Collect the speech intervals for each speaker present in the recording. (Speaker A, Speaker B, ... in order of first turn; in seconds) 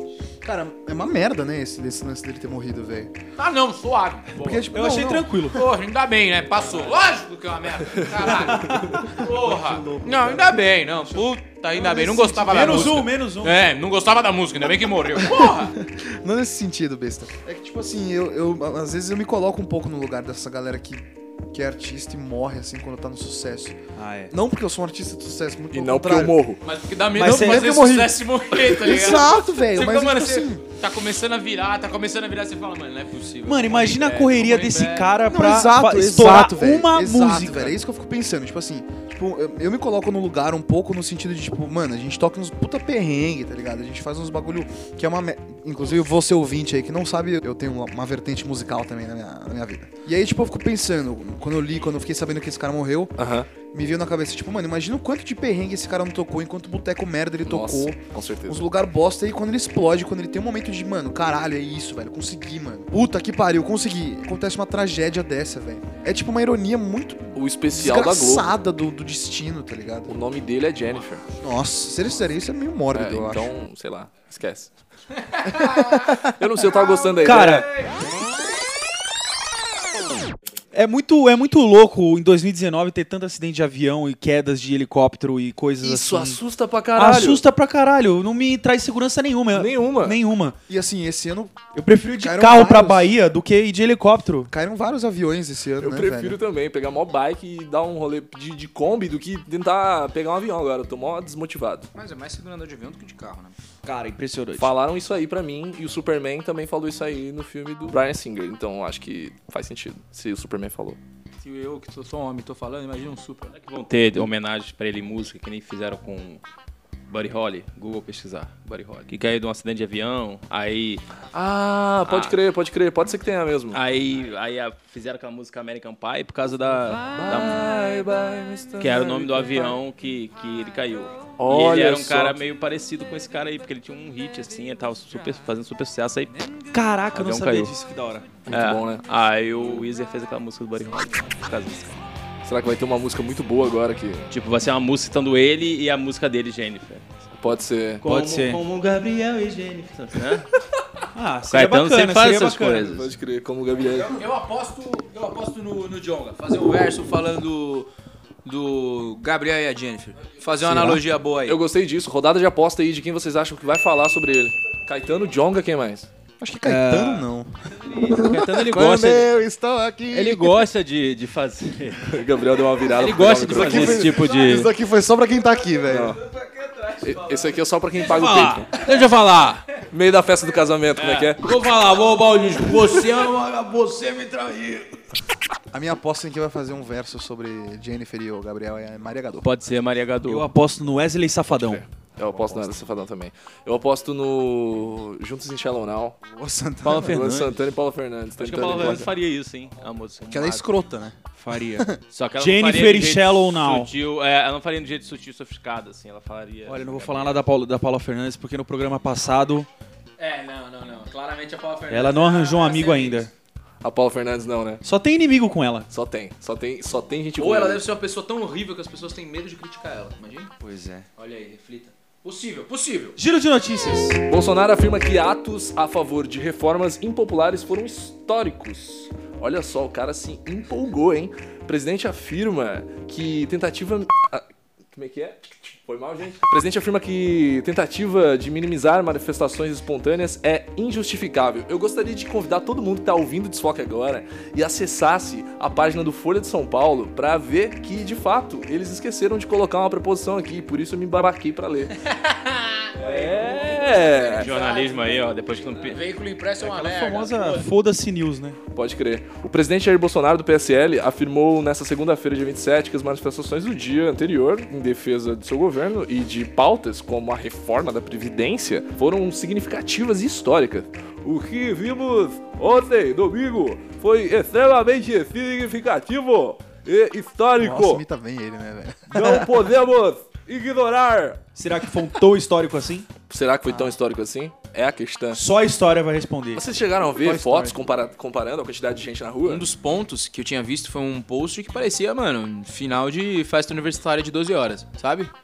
Speaker A: 0.4-3.1, 4.3-5.3, 8.6-13.0, 15.2-23.8, 24.3-26.4, 27.2-30.6, 35.3-58.0, 58.5-70.1, 71.4-73.5, 75.4-76.3, 90.7-91.6, 92.2-93.1, 94.5-96.4, 166.4-170.7, 173.5-176.2, 185.7-189.5, 196.3-197.3, 200.3-201.2, 201.7-202.0, 277.6-279.4, 283.7-283.9, 287.2-287.8
Speaker B: 3.4-4.6, 5.5-15.7, 26.6-35.1, 101.9-103.5, 111.4-113.5, 154.0-157.9, 158.4-161.6, 173.0-174.3, 176.3-177.0, 178.1-179.6, 181.4-185.0, 210.2-213.3, 217.4-220.5, 221.2-223.2, 252.1-255.2, 255.7-257.6, 289.4-295.3
Speaker C: 4.7-5.7, 12.4-13.7, 23.9-24.3, 27.1-27.9, 33.4-37.8, 77.2-77.7, 80.7-86.4, 86.9-90.6, 91.7-94.5, 103.8-104.7, 136.7-138.3, 148.0-148.6, 151.1-153.1, 160.6-161.0, 166.6-167.3, 190.2-191.8, 201.4-203.9, 206.7-209.7, 211.9-213.3, 214.8-215.9, 220.6-221.1, 223.2-224.2, 256.6-258.6, 281.5-283.1, 285.3-286.7
Speaker D: 25.7-26.6, 53.2-53.5, 57.4-58.7, 67.3-68.5, 70.1-71.3, 72.9-74.7, 75.9-77.7, 85.8-87.4, 89.5-90.2, 95.8-101.9, 104.6-111.0, 121.3-123.8, 127.1-129.8, 131.4-132.4, 138.4-139.0, 142.4-144.3, 147.4-148.1, 152.9-154.2, 161.4-166.1, 172.0-174.2, 175.9-176.2, 177.0-178.7, 179.9-181.4, 191.5-196.2, 196.9-199.1, 213.8-214.8, 215.9-217.8, 224.3-251.9, 252.9-254.5, 258.7-278.0, 279.1-281.4, 283.3-285.4, 286.5-289.6
Speaker E: 113.5-116.4, 117.1-121.0, 122.1-122.3, 123.7-127.6, 128.8-136.5, 137.1-137.7, 138.5-142.0, 144.3-147.1, 148.0-150.4, 151.5-153.0, 167.9-169.3, 170.1-172.1, 173.0-174.7, 178.1-178.6, 181.0-181.3, 189.4-190.5, 196.8-197.6, 198.4-200.7, 202.1-207.4, 253.0-256.0